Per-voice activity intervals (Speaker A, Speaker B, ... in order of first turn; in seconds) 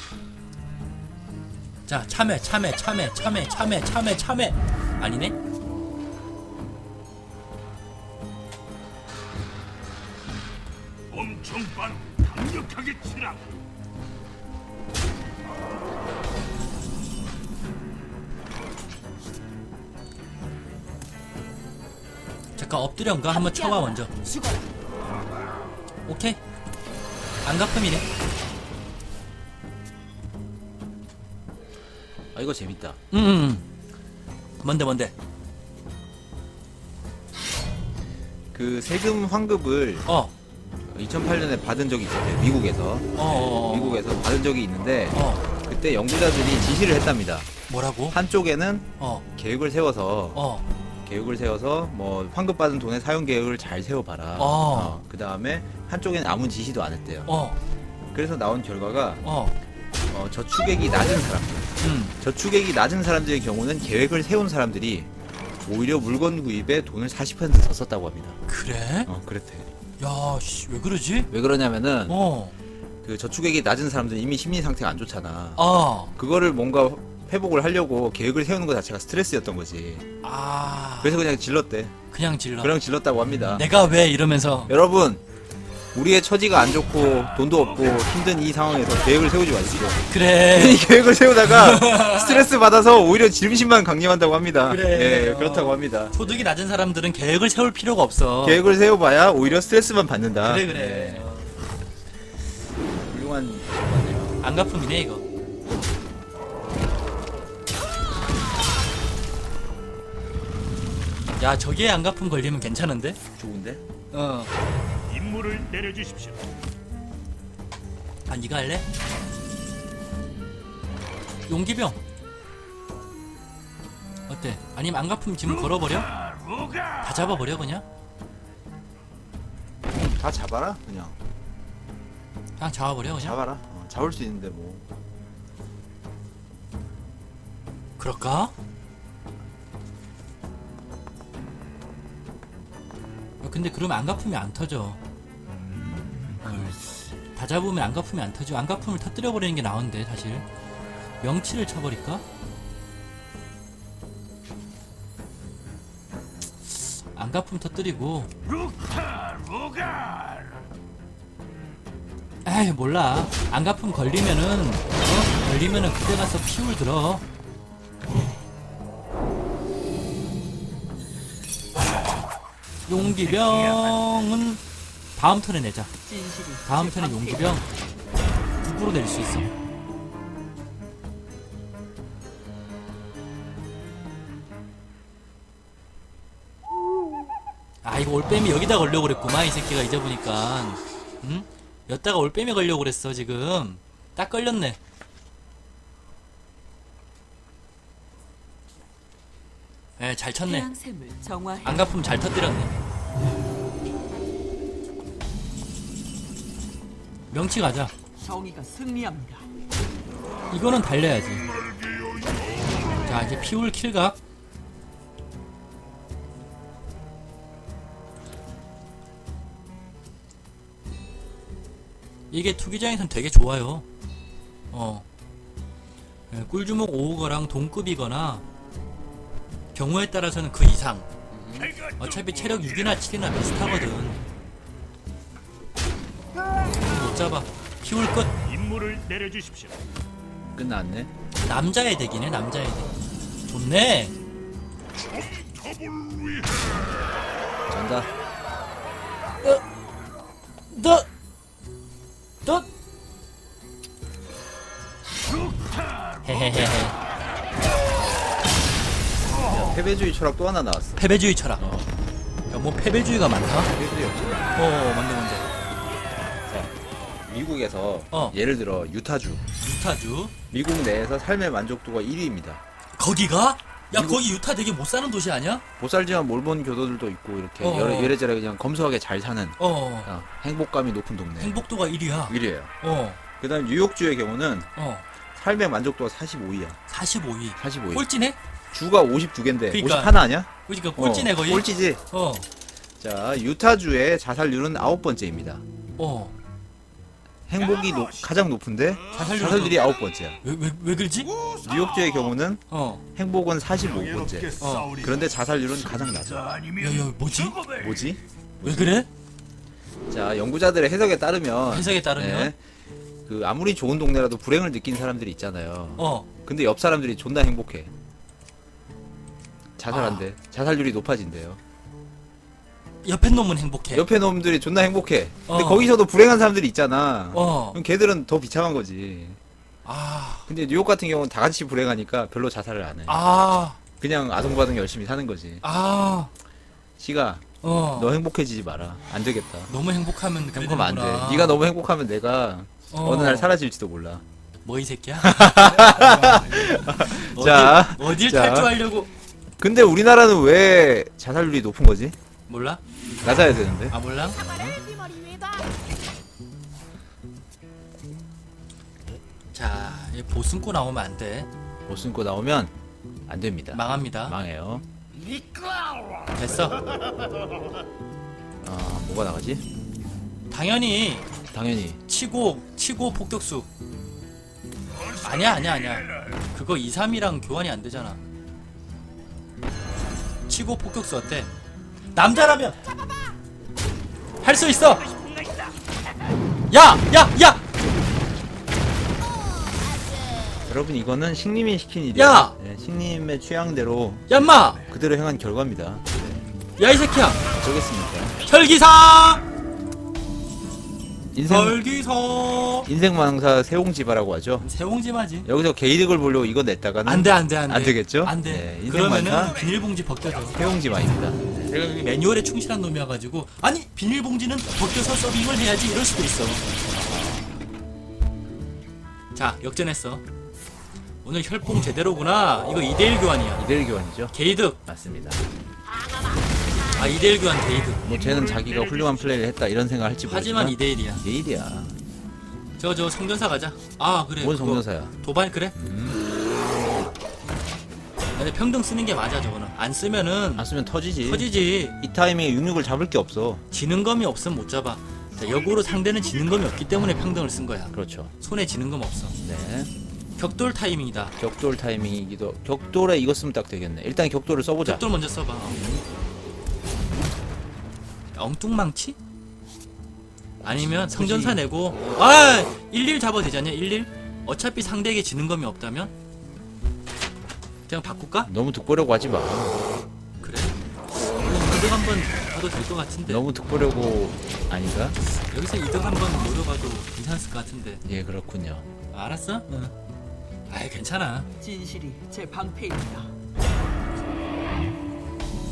Speaker A: 1.9-5.3, 22.6-24.1, 26.1-26.4, 27.4-28.1, 33.1-33.6, 34.6-35.1, 40.1-40.3, 43.2-44.0, 45.1-45.5, 47.7-48.2, 49.0-49.2, 50.3-50.6, 54.4-55.0, 57.3-57.6, 59.2-59.5, 61.8-62.1, 68.5-69.1, 70.0-71.3, 72.1-72.6, 75.6-76.1, 80.2-81.2, 82.1-82.8, 83.5-84.7, 90.1-92.5, 94.7-98.6, 100.5-101.5, 104.4-105.2, 111.4-113.2, 114.1-114.5, 118.3-118.9, 121.5-122.0, 124.3-126.1, 127.0-127.8, 132.6-133.4, 138.0-138.5, 143.4-145.0, 146.4-150.4, 151.2-152.2, 156.7-158.3, 162.4-167.2, 172.9-174.6, 175.2-175.9, 176.7-177.7, 178.6-179.5, 187.8-194.8, 200.0-200.7, 201.6-202.8, 207.3-207.9, 210.5-211.4, 213.1-214.2, 222.3-223.8, 224.7-225.1, 226.3-228.4, 229.8-231.1, 232.0-234.2, 236.7-238.3, 241.4-242.9, 243.5-244.1, 250.7-251.1, 256.2-257.0, 261.0-261.6, 262.5-263.7, 264.6-265.5, 269.6-270.4, 273.0-275.6, 277.6-278.2, 279.6-280.1, 281.4-283.2, 284.8-285.1, 286.9-288.4, 289.7-292.5, 296.0-296.4, 299.1-299.9, 300.4-301.3, 302.7-303.0, 304.6-305.0, 306.8-307.6, 308.6-309.1, 311.7-312.5, 316.0-316.3, 319.9-320.2, 323.0-324.0, 325.5-325.9, 327.3-327.8, 329.9-330.5, 333.1-333.8, 335.6-336.3, 337.6-338.1, 339.7-341.6, 342.9-343.5, 344.6-346.4, 347.1-349.1, 352.5-352.8, 353.9-354.4, 359.5-361.5, 363.7-364.4, 366.3-366.8, 370.5-371.3, 372.1-373.7, 375.2-378.2, 380.5-381.5, 382.1-382.8, 384.4-385.1, 386.7-387.6, 392.1-392.6, 394.3-394.9, 396.8-397.4, 398.4-399.4, 401.4-402.9, 404.6-405.5, 407.1-410.6, 411.7-416.7, 419.4-420.2, 421.2-423.7, 424.3-424.8, 426.9-428.0, 430.3-431.2, 432.8-435.8, 438.4-440.7, 441.2-442.0, 443.7-449.4, 450.4-451.4, 454.8-455.8, 458.4-459.2, 460.6-466.1, 467.9-468.5, 470.4-473.4, 475.2-478.0, 479.1-479.9, 480.7-481.5
Speaker B: 11.1-13.6, 115.1-116.5, 158.8-160.3, 212.1-212.8, 231.7-232.7, 238.4-239.8, 245.0-246.7, 297.7-298.3, 301.4-302.1, 303.8-308.1, 428.0-429.4, 445.4-446.9
Speaker C: 23.3-24.7, 176.1-177.7, 200.4-202.0, 208.2-209.5, 355.0-355.6, 481.6-483.3
Speaker D: 32.3-33.0, 38.5-40.1, 40.9-47.5, 48.1-50.4, 51.0-57.3, 58.1-59.2, 60.1-65.1, 65.6-68.4, 69.1-69.7, 71.3-72.2, 73.0-80.1, 81.0-82.0, 82.6-83.7, 84.7-85.2, 85.9-96.2, 98.4-101.3, 102.9-104.4, 113.4-113.8, 130.0-131.2, 133.1-134.9, 145.8-146.8, 231.3-231.8, 240.5-241.1, 247.7-248.1, 259.4-261.9, 263.7-264.6, 266.5-266.7, 267.3-269.4, 270.5-272.6, 273.9-274.2, 275.8-281.6, 282.3-282.7, 283.4-284.7, 285.3-286.8, 287.6-288.1, 288.7-292.0, 293.0-295.6, 297.5-300.4, 301.6-302.6, 303.1-306.5, 307.7-309.0, 310.1-312.6, 313.3-317.9, 319.8-321.6, 323.9-329.4, 330.5-333.2, 334.0-335.6, 337.0-339.7, 340.5-344.2, 345.2-348.8, 349.6-352.2, 353.2-354.8, 361.9-362.7, 363.3-364.8, 366.4-366.8, 368.6-369.6, 371.5-372.0, 390.6-394.3, 394.8-396.4, 397.5-398.4, 401.3-401.8, 402.9-404.7, 405.4-409.6, 410.5-411.7, 416.9-417.6, 423.6-425.5, 428.0-431.9, 434.4-435.1, 435.8-436.2, 440.6-441.5, 442.0-443.6, 447.9-448.3, 449.4-449.9, 451.4-455.1, 455.6-456.0, 461.1-461.6, 468.4-470.0, 473.3-475.2, 478.1-478.9